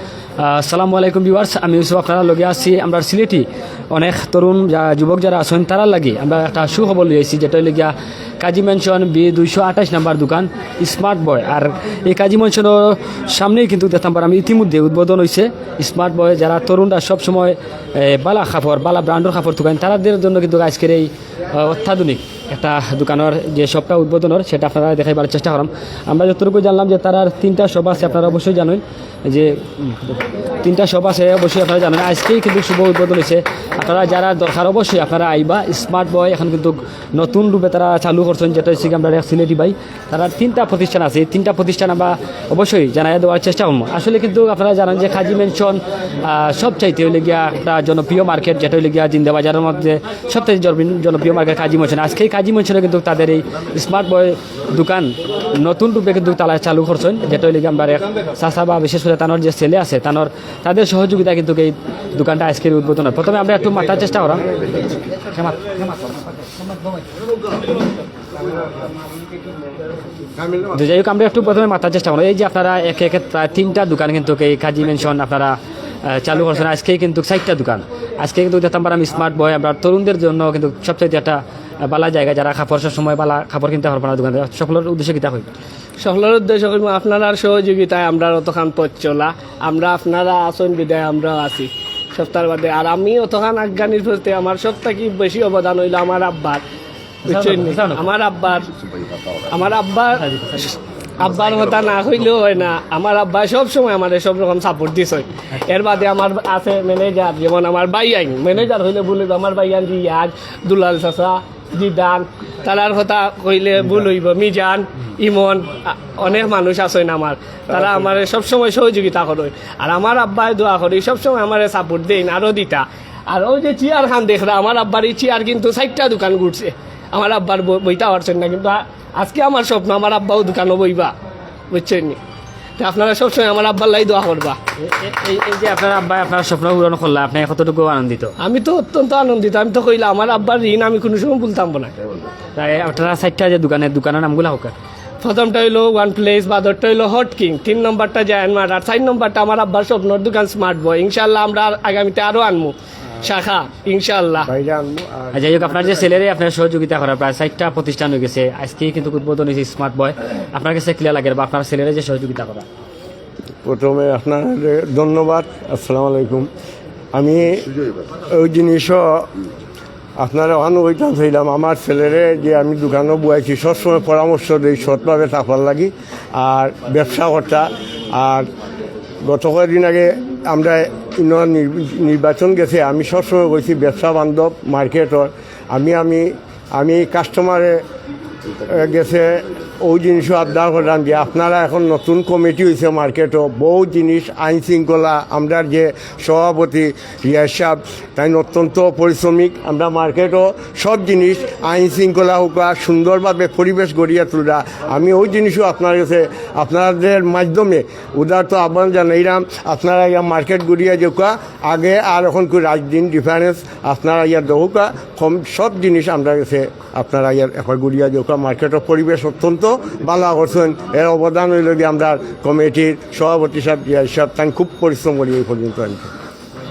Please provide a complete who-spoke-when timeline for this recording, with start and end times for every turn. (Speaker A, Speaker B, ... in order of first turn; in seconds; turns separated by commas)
Speaker A: 0.4-64.4, Speaker A: 65.3-65.6, Speaker A: 70.7-85.5, Speaker B: 86.0-96.6, Speaker A: 97.3-98.0, Speaker B: 97.3-98.7, Speaker B: 99.5-131.1, Speaker A: 100.2-100.7, Speaker B: 131.7-132.2, Speaker B: 132.8-134.6, Speaker A: 134.9-138.3, Speaker B: 138.4-141.9, Speaker A: 142.6-144.7, Speaker B: 145.2-154.5, Speaker C: 154.5-155.5, Speaker A: 155.3-162.7, Speaker C: 163.7-166.5, Speaker C: 167.1-167.6, Speaker C: 168.3-169.3, Speaker C: 170.2-178.5, Speaker C: 179.2-187.8, Speaker C: 188.7-226.1